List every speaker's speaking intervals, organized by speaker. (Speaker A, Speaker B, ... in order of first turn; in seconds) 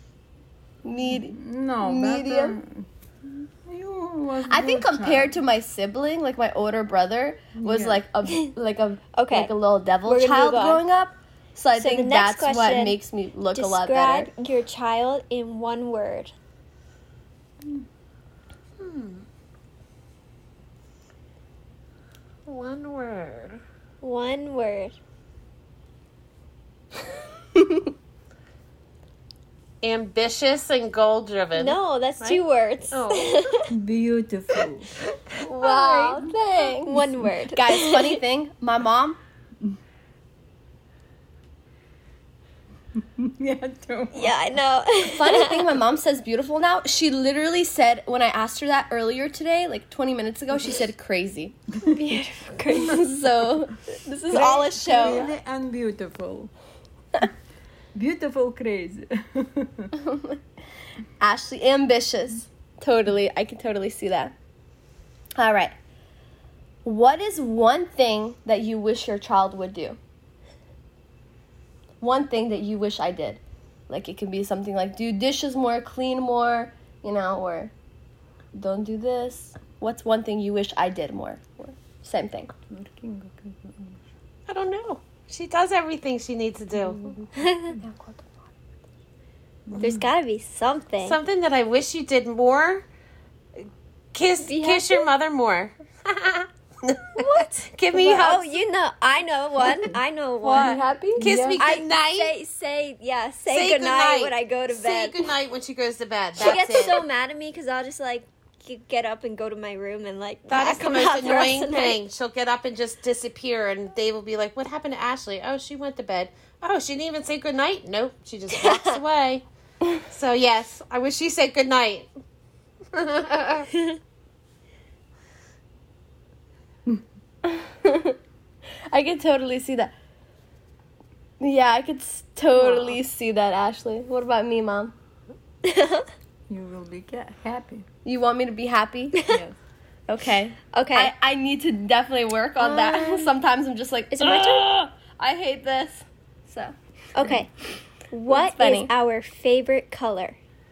Speaker A: 0.8-2.6, 4.5-14.3, 27.6-27.9, 35.4-37.0, 37.5-39.2, 45.0-51.6, 52.8-55.3, 60.0-60.4, 61.2-64.3, 65.4-65.7, 66.8-70.0, 72.0-77.7, 78.5-82.5, 87.8-88.5, 97.2-97.5, 100.4-101.3, 127.4-128.2, 128.9-129.9, 131.4-134.9, 138.1-139.2, 140.1-146.7, 148.3-148.9
Speaker B: 1.1-5.4, 7.6-8.0, 33.7-34.9, 43.0-44.4, 54.3-56.5, 57.9-59.9, 82.7-84.0, 86.8-87.2, 89.7-90.1, 99.6-99.9, 101.2-101.6, 136.5-137.9, 139.3-139.6
Speaker C: 8.3-8.5, 9.1-9.5, 10.1-10.8, 11.8-13.0, 13.5-16.3, 24.0-25.0, 31.6-33.7, 35.6-38.2, 44.1-45.8, 51.8-53.1, 87.4-87.8, 89.8-91.2, 94.4-95.1, 98.0-100.8, 101.6-105.3, 106.4-112.0, 118.5-119.0, 135.6-136.1, 139.2-139.4, 140.7-141.1, 142.6-143.3, 144.2-144.6, 147.2-147.5, 148.1-150.4
Speaker D: 18.8-19.2, 22.5-23.6, 29.8-33.5, 84.5-87.1, 91.0-92.8, 94.1-98.6, 101.2-102.3, 103.5-107.0, 110.5-119.5, 120.0-122.1, 122.9-123.7